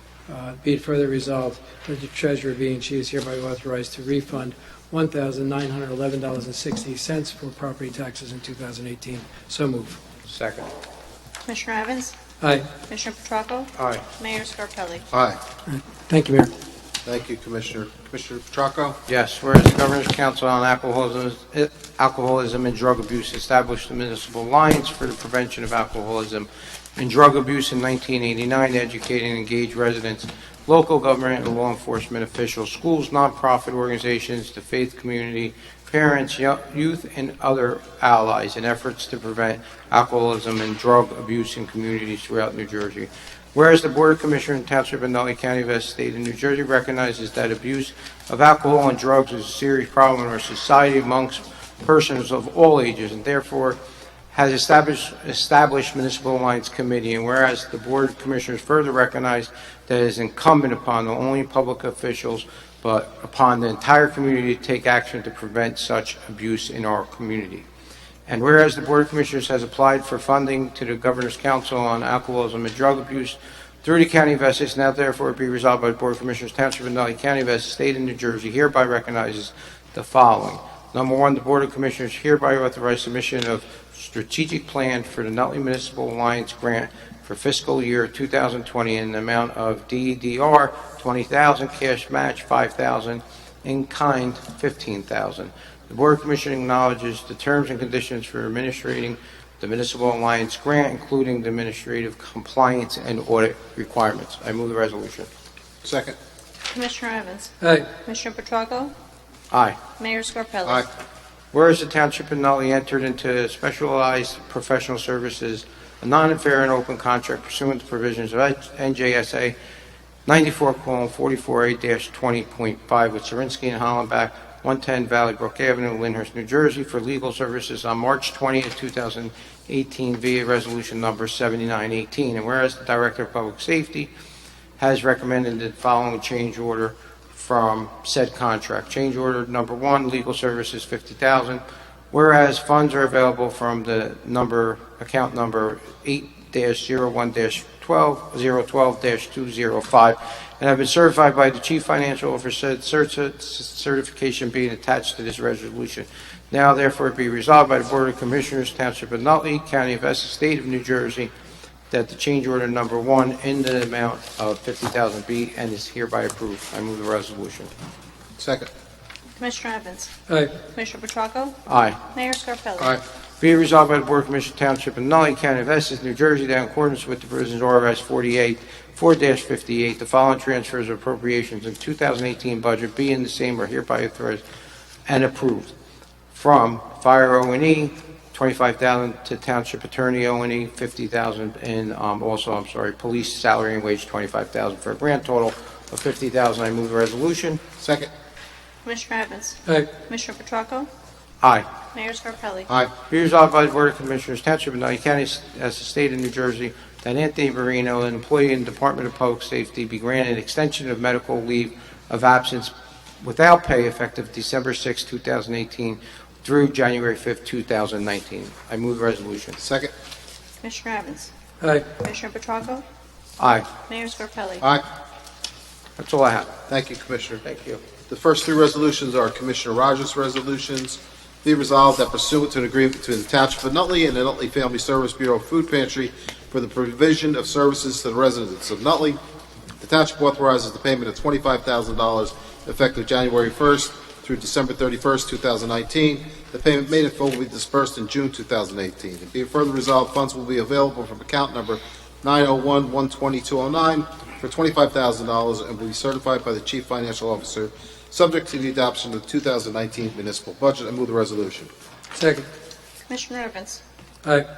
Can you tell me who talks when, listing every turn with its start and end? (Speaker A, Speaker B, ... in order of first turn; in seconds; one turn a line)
Speaker A: 0.3-10.0
Speaker B: 10.3-10.7
Speaker C: 11.4-12.2
Speaker A: 12.4-12.7
Speaker C: 12.9-15.1
Speaker B: 13.8-14.0
Speaker D: 15.1-15.4
Speaker A: 15.7-16.5
Speaker D: 17.1-19.0
Speaker B: 19.1-53.8
Speaker B: 54.3-67.7
Speaker B: 68.3-105.3
Speaker D: 105.8-106.2
Speaker C: 106.7-107.5
Speaker A: 107.6-107.9
Speaker C: 108.0-108.9
Speaker B: 109.5-109.8
Speaker C: 110.0-110.8
Speaker B: 111.5-119.5
Speaker B: 120.3-134.1
Speaker B: 134.8-161.3
Speaker B: 161.9-167.7
Speaker D: 168.4-168.7
Speaker C: 169.4-170.1
Speaker A: 170.3-170.5
Speaker C: 170.7-171.6
Speaker B: 171.7-172.0
Speaker C: 172.1-173.0
Speaker B: 173.4-184.4
Speaker B: 185.1-185.7
Speaker B: 186.3-197.6
Speaker D: 197.8-198.1
Speaker C: 198.8-200.9
Speaker B: 201.4-201.7
Speaker C: 201.9-202.7
Speaker B: 203.1-219.6
Speaker D: 219.6-219.9
Speaker C: 220.6-221.3
Speaker A: 221.6-221.9
Speaker C: 222.0-222.8
Speaker B: 223.4-223.7
Speaker C: 223.9-224.6
Speaker B: 226.0-226.6
Speaker D: 226.7-227.4
Speaker B: 227.4-227.8
Speaker D: 228.1-239.2
Speaker D: 239.8-261.7
Speaker A: 262.1-262.5
Speaker C: 263.1-263.8